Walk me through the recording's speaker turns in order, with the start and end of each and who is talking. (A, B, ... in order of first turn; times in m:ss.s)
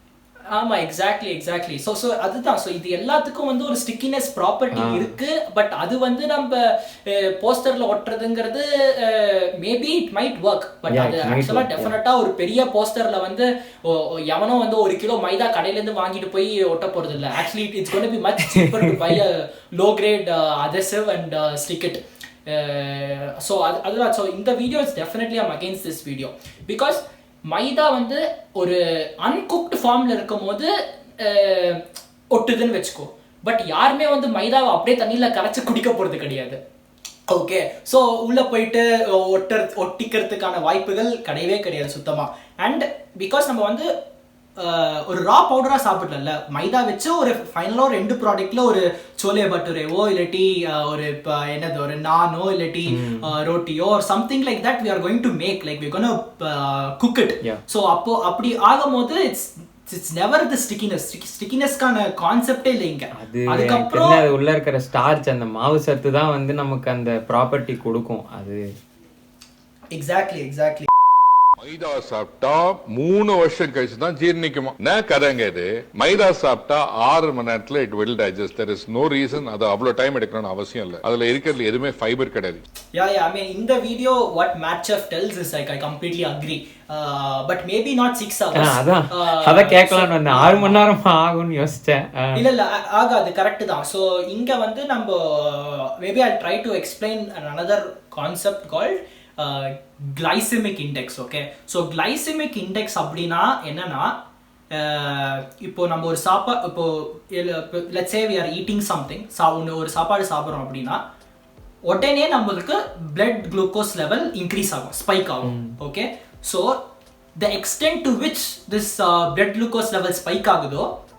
0:00.5-0:36.6 A
0:04.7-0:05.2 B
0:10.9-0:11.9 B
0:18.6-0:19.2 B
0:37.3-0:43.9 A
0:44.6-1:04.2 A
0:52.9-0:53.3 B
1:03.2-1:08.6 B
1:09.9-1:10.9 A
1:11.6-1:22.6 C
1:22.9-1:30.8 A
1:28.5-1:32.4 B
1:32.4-1:44.1 A
1:44.7-1:51.0 A
1:51.9-1:56.8 A
1:55.4-1:55.7 B
1:57.4-2:00.9 A